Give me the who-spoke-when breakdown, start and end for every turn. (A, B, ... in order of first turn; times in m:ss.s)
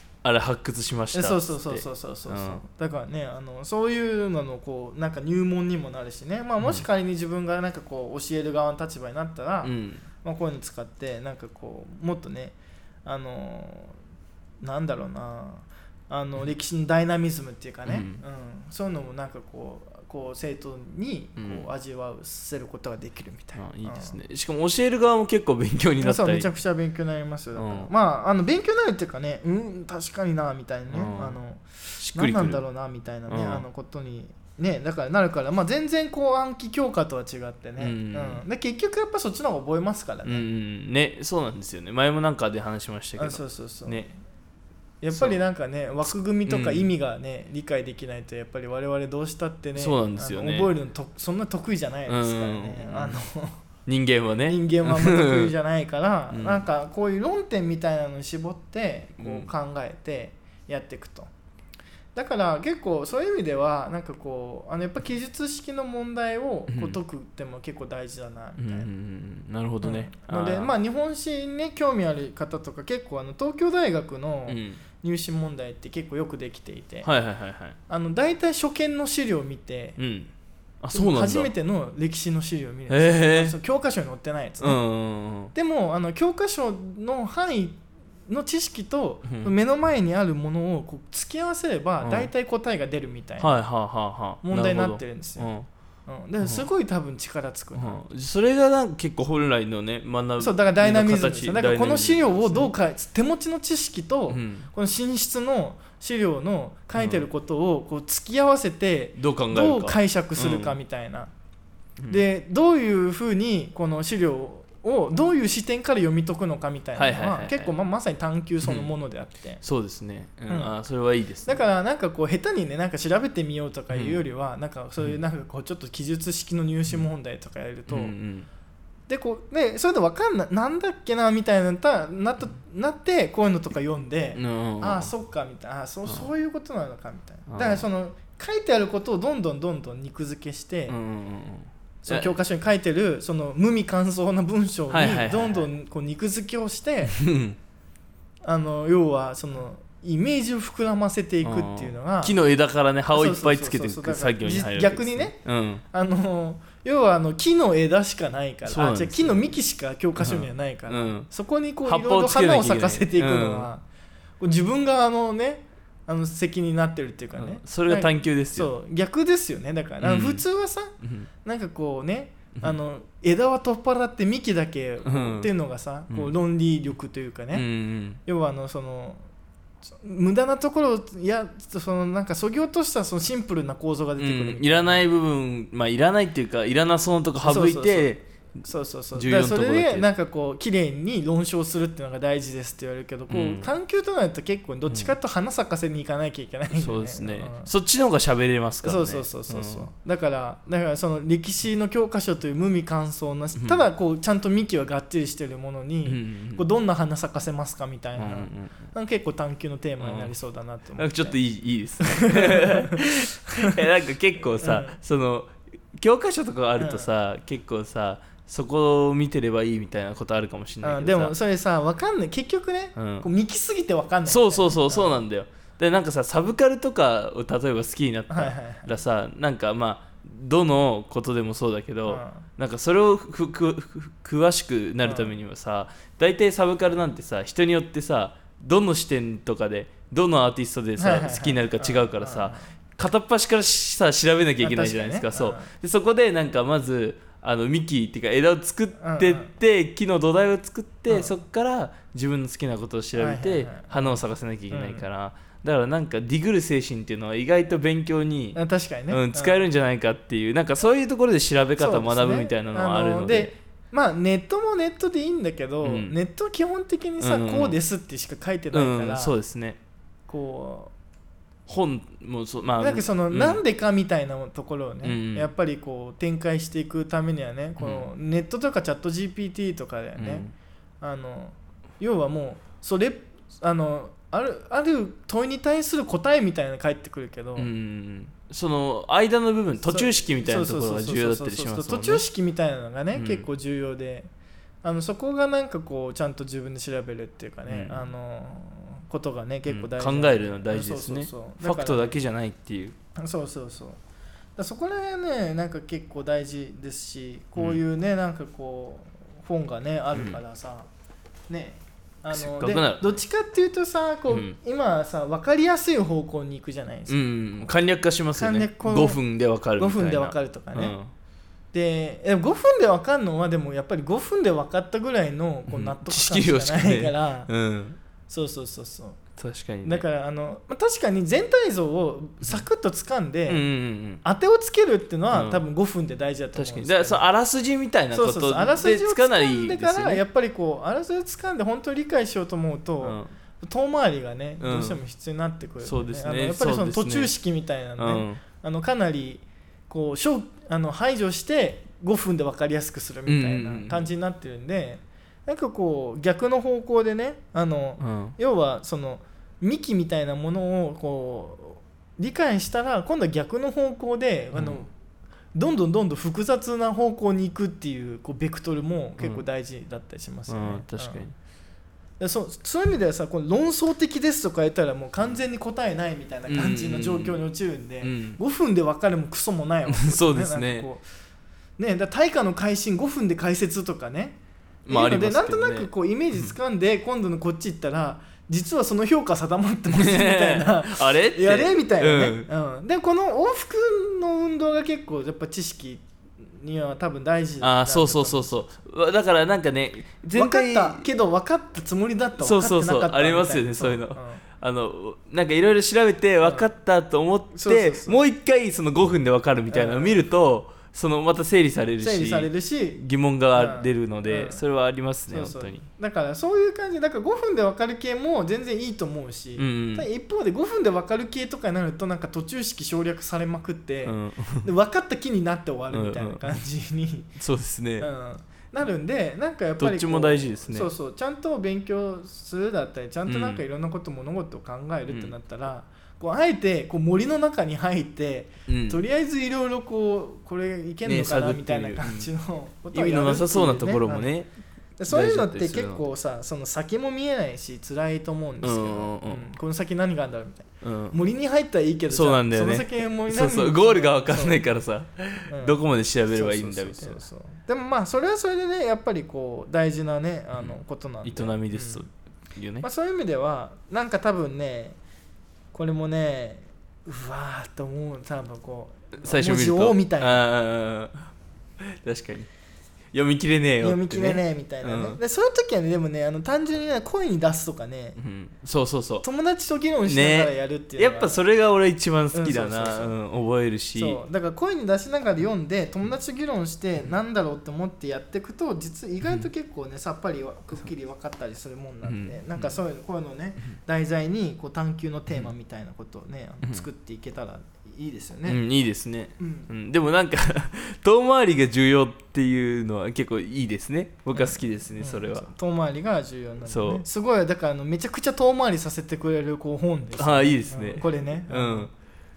0:00.2-0:02.6 A
0:01.1-0:14.0 B
0:09.6-0:10.0 A
0:14.6-0:24.2 B
0:17.9-0:18.2 A
0:21.4-0:21.7 A
0:23.6-0:26.5 A
0:26.0-0:40.4 B
0:27.6-0:27.9 A
0:30.9-0:31.4 A
0:32.0-0:32.6 A
0:33.3-0:33.6 A
0:37.8-0:38.4 A
0:40.2-0:44.1 A
0:43.2-0:44.2 B
0:45.0-0:53.6 B
0:45.1-0:45.4 A
0:46.5-0:46.9 A
0:49.8-0:50.7 A
0:52.1-0:53.2 A
0:53.9-0:55.5 A
0:54.5-1:01.3 B
0:56.3-0:56.6 A
0:59.2-0:59.5 A
1:02.1-1:08.9 B
1:06.7-1:07.0 A
1:08.6-1:10.7 A
1:09.8-1:17.1 B
1:14.5-1:14.8 A
1:17.0-1:17.8 A
1:17.9-1:20.0 B
1:20.0-1:21.5 A
1:20.9-1:24.8 B
1:22.9-1:23.6 A
1:24.6-1:25.5 A
1:25.5-1:33.5 B
1:29.3-1:29.5 A
1:32.0-1:32.3 A
1:33.4-1:35.7 A
1:34.4-1:35.5 B
1:36.1-1:38.0 B
1:37.8-1:42.7 A
1:40.4-1:51.3 B
1:44.3-1:44.7 A
1:47.0-1:47.3 A
1:49.2-1:50.8 A
1:52.1-1:59.6 B
1:57.0-1:57.7 A
1:58.6-1:58.9 A
1:59.6-2:01.6 A
2:00.5-2:00.7 B
2:01.5-2:08.1 B
2:03.9-2:04.3 A
2:07.9-2:08.5 A
2:09.1-2:21.0 B
2:14.4-2:15.1 A
2:17.5-2:17.8 A
2:20.9-2:22.3 A
2:22.0-2:27.2 B
2:24.9-2:25.7 A
2:27.1-2:27.6 A
2:28.4-2:32.4 B
2:31.4-2:35.8 A
2:33.1-2:35.4 B
2:35.9-2:43.8 B
2:38.6-2:39.5 A
2:40.2-2:41.3 A
2:41.9-2:43.7 A
2:44.4-2:57.6 B
2:47.4-2:48.7 A
2:50.0-2:50.4 A
2:51.0-2:51.3 A
2:55.0-2:55.5 A
2:57.5-2:58.2 A
2:58.2-2:59.2 B
3:00.0-3:05.1 B
3:04.2-3:08.6 A
3:07.4-3:17.7 B
3:09.1-3:10.1 A
3:13.3-3:13.7 A
3:16.7-3:19.9 A
3:18.8-3:31.4 B
3:23.6-3:23.8 A
3:26.1-3:26.6 A
3:28.2-3:28.9 A
3:30.0-3:30.4 A
3:31.0-3:41.3 A
3:32.0-3:33.9 B
3:34.5-3:35.0 B
3:36.8-3:37.1 B
3:40.8-3:45.2 B
3:43.0-3:43.3 A
3:44.2-4:18.6 A
3:48.3-3:49.0 B
3:52.1-3:52.5 B
3:55.0-3:55.4 B
4:01.0-4:02.7 B
4:04.6-4:05.7 B
4:09.0-4:09.5 B
4:11.1-4:11.3 B
4:13.2-4:15.0 B
4:18.6-4:19.6 B
4:19.1-4:23.5 A
4:21.8-4:29.3 B
4:25.8-4:26.1 A
4:27.2-4:27.8 A
4:28.7-4:29.8 A
4:30.3-4:30.9 B
4:31.7-4:33.6 A
4:32.8-4:40.5 B
4:35.0-4:35.5 A
4:37.8-4:38.1 A
4:40.2-4:40.5 A
4:41.0-4:47.7 B
4:47.6-4:52.2 A
4:49.9-4:54.3 B
4:53.1-4:53.5 A
4:54.8-5:02.2 B
4:57.7-4:58.1 A
4:59.7-5:03.0 A
5:03.2-5:04.0 B
5:04.6-5:10.9 B
5:10.1-5:10.4 A
5:11.5-5:17.7 B
5:12.3-5:13.2 A
5:14.3-5:14.6 A
5:17.1-5:21.1 A
5:18.4-5:19.2 B
5:19.8-5:21.0 B
5:21.7-5:27.5 B
5:25.7-5:28.0 A
5:28.3-5:29.2 B
5:29.4-5:30.1 A
5:29.8-5:33.6 B
5:33.5-5:34.2 A
5:34.2-5:37.2 B
5:35.3-5:35.6 A
5:36.5-5:40.2 A
5:38.1-6:04.9 B
5:43.0-5:43.3 A
5:44.6-5:45.0 A
5:45.8-5:47.3 A
5:48.0-5:48.4 A
5:53.3-5:54.1 A
5:58.0-5:58.4 A
6:04.5-6:04.8 A
6:05.6-6:11.3 B
6:09.2-6:09.4 A
6:10.5-6:11.4 A
6:12.2-6:21.0 B
6:16.5-6:17.4 A
6:18.0-6:18.4 A
6:19.9-6:20.9 A
6:21.8-6:24.4 B
6:24.9-6:26.5 A
6:24.9-6:38.7 B
6:29.9-6:32.5 A
6:37.6-6:41.0 A
6:40.3-6:44.4 B
6:42.4-6:55.8 A
6:46.4-6:46.7 B
6:47.5-6:48.2 B
6:49.7-6:50.2 B
6:52.0-6:53.0 B
6:53.6-6:54.6 B
6:55.3-7:07.3 B
6:59.6-7:00.1 A
7:04.1-7:04.7 A
7:05.9-7:06.6 A
7:07.4-7:08.1 A
7:08.0-7:24.3 B
7:09.8-7:10.9 A
7:13.3-7:13.6 A
7:18.7-7:19.0 A
7:21.0-7:22.3 A
7:22.9-7:24.5 A
7:25.0-7:34.6 B
7:25.1-7:26.0 A
7:28.6-7:29.5 A
7:30.8-7:31.2 A
7:32.1-7:37.2 A
7:35.5-7:42.0 B
7:40.6-7:42.9 A
7:42.8-7:45.0 B
7:45.7-7:50.4 B
7:49.2-7:52.5 A
7:53.1-7:55.2 A
7:53.8-7:58.2 B
7:58.2-7:59.2 A
7:59.2-8:01.4 B
8:00.1-8:04.2 A
8:02.3-8:03.1 B
8:04.0-8:18.6 B
8:12.0-8:12.7 A
8:18.4-8:25.5 A
8:19.4-8:19.7 B
8:24.3-8:31.9 B
8:26.6-8:27.0 A
8:30.2-8:31.9 A